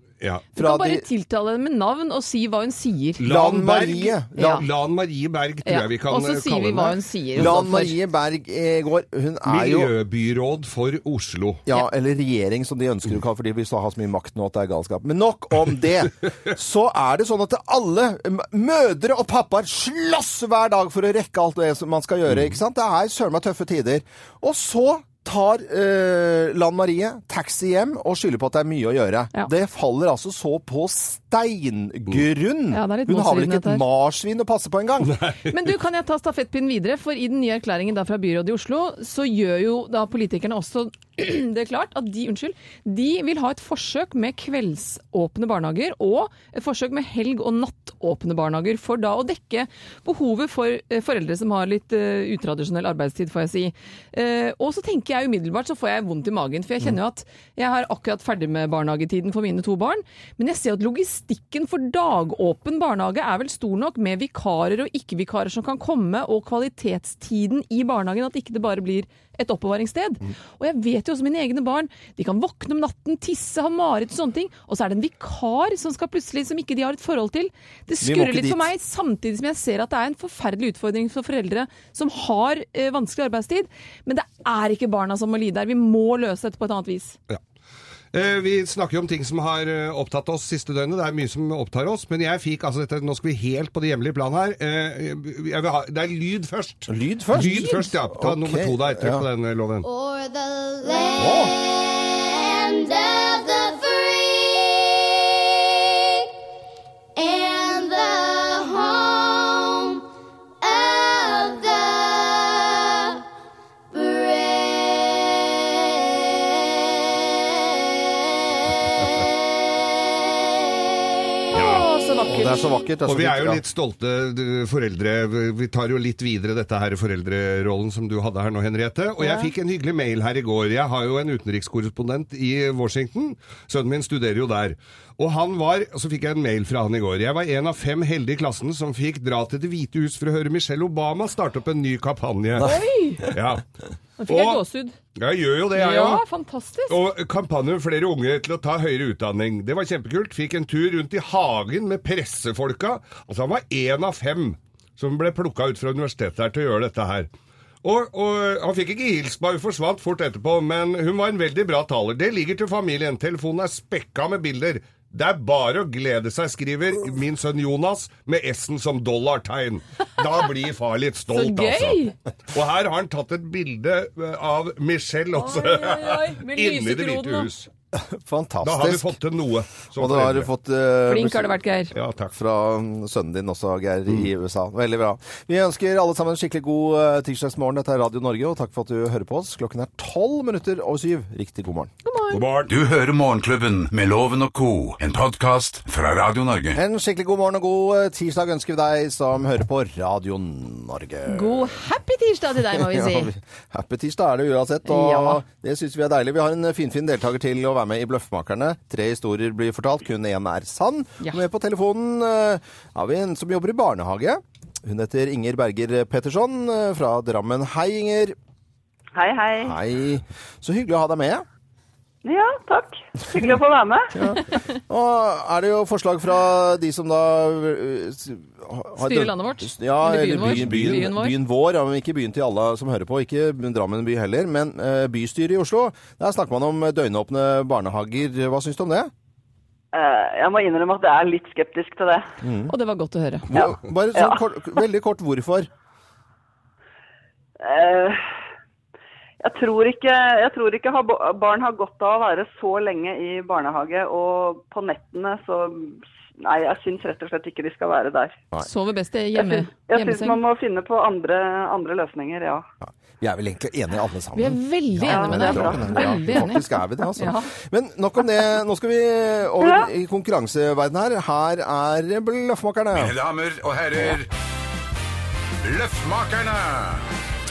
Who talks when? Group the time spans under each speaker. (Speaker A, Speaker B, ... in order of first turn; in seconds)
Speaker A: 0.2-0.5, 3.2-7.5, 9.5-11.6, 35.0-35.7, 88.1-99.9, 121.5-121.9, 123.0-142.7, 143.3-143.6, 144.3-144.6, 145.2-146.2, 146.9-157.3, 157.8-177.7, 178.6-180.5, 181.9-182.3, 192.3-192.7, 230.5-231.0
Speaker B: 0.6-3.2, 4.4-4.7, 5.7-8.0, 32.7-33.9, 35.5-87.2, 97.4-97.9, 121.5-122.7, 129.2-129.5, 142.6-143.3, 144.2-145.0, 145.7-147.0, 171.3-172.2, 175.3-177.5, 181.1-181.9, 192.1-192.4, 201.3-203.3, 204.9-205.4, 229.0-231.4, 242.7-243.5, 258.6-260.4, 264.4-267.5
Speaker C: 0.6-1.1, 3.2-4.6, 7.4-9.9, 11.7-35.2, 78.0-78.7, 96.9-99.3, 101.2-101.5, 122.3-123.6, 177.9-179.2, 180.0-181.6, 182.3-191.9, 196.8-201.8, 202.7-218.4, 219.6-221.5, 224.1-239.1, 242.4-242.7, 243.5-245.7, 262.8-273.2
Speaker D: 99.8-106.3, 107.2-110.0, 110.6-113.2, 113.9-118.2, 119.1-120.9
Speaker E: 192.7-196.8, 272.9-274.3, 275.6-277.1
Speaker F: 219.2-219.8, 222.2-224.1, 239.9-242.3, 243.5-244.4, 247.6-248.3, 249.4-258.4, 259.4-262.6, 265.1-266.4, 269.6-269.9